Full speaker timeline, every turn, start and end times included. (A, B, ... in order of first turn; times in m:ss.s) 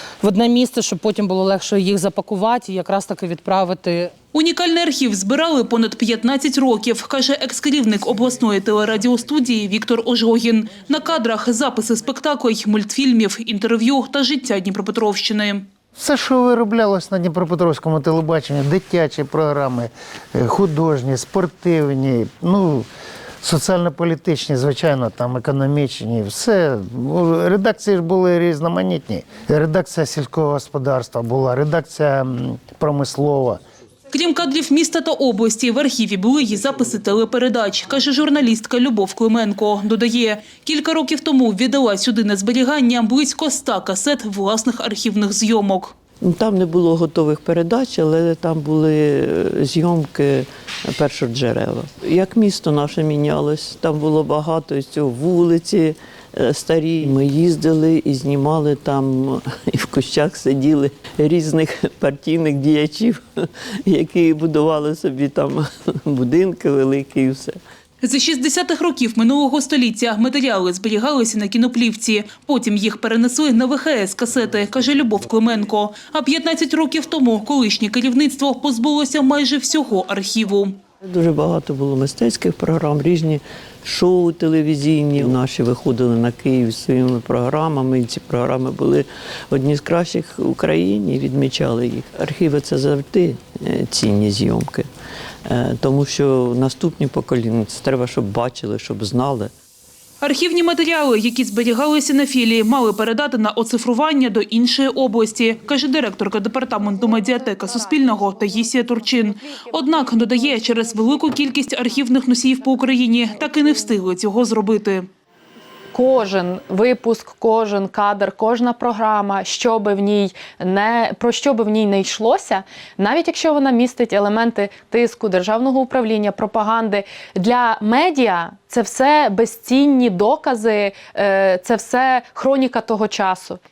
0:00.2-0:04.1 A
0:04.3-0:15.7 B
0:16.0-0:22.9 C
0:23.4-0:33.6 C
0:34.1-0:46.0 B
0:46.2-1:07.6 D
1:08.0-1:20.8 B
1:21.0-1:34.9 D
1:35.5-1:39.5 D
1:40.2-1:55.1 B
1:55.9-2:13.6 E